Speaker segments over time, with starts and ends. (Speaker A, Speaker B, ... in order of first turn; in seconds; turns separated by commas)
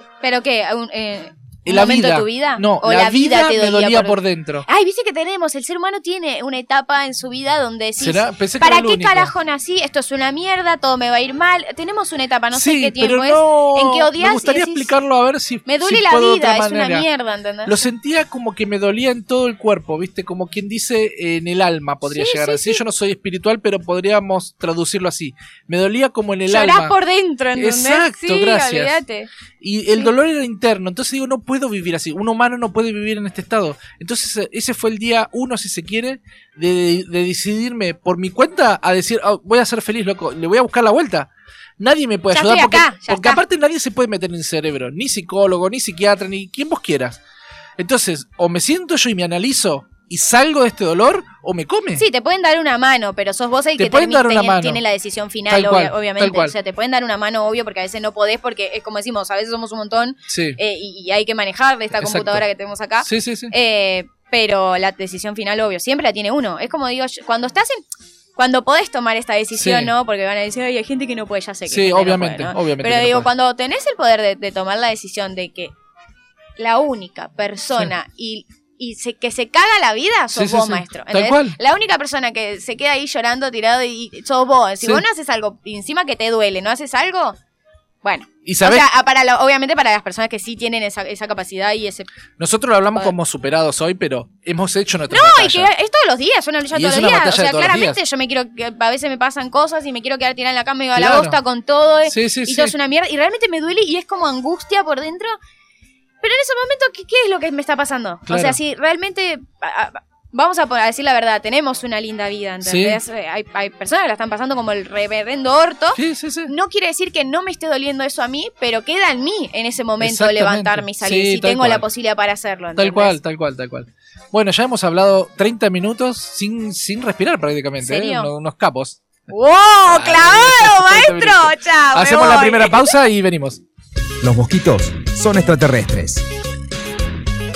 Speaker A: 0.2-14.9, Speaker B: 1.7-4.7, Speaker B: 8.0-9.3, Speaker B: 12.5-17.1, Speaker A: 15.7-17.9, Speaker B: 17.6-26.9, Speaker A: 22.1-22.8, Speaker A: 26.5-29.3, Speaker B: 27.6-29.0, Speaker B: 29.6-47.2, Speaker A: 42.3-43.4, Speaker B: 47.8-52.0, Speaker A: 52.0-67.8, Speaker B: 53.8-54.8, Speaker B: 55.5-56.5, Speaker B: 60.3-60.6, Speaker B: 62.0-62.4, Speaker B: 63.0-63.5, Speaker A: 68.4-75.7, Speaker B: 69.5-69.9, Speaker B: 71.7-73.3, Speaker A: 76.6-87.4, Speaker B: 80.3-81.6, Speaker A: 88.0-92.1, Speaker B: 88.5-88.9, Speaker B: 92.4-95.7, Speaker A: 95.1-105.4, Speaker B: 96.7-98.0, Speaker B: 100.9-101.4, Speaker B: 102.1-102.8, Speaker A: 106.2-123.2, Speaker B: 108.3-108.6, Speaker B: 112.6-113.0, Speaker B: 116.0-116.5, Speaker B: 120.0-121.8, Speaker B: 122.8-129.1, Speaker A: 127.8-128.3, Speaker A: 129.3-132.9, Speaker B: 129.9-133.6, Speaker C: 134.2-136.2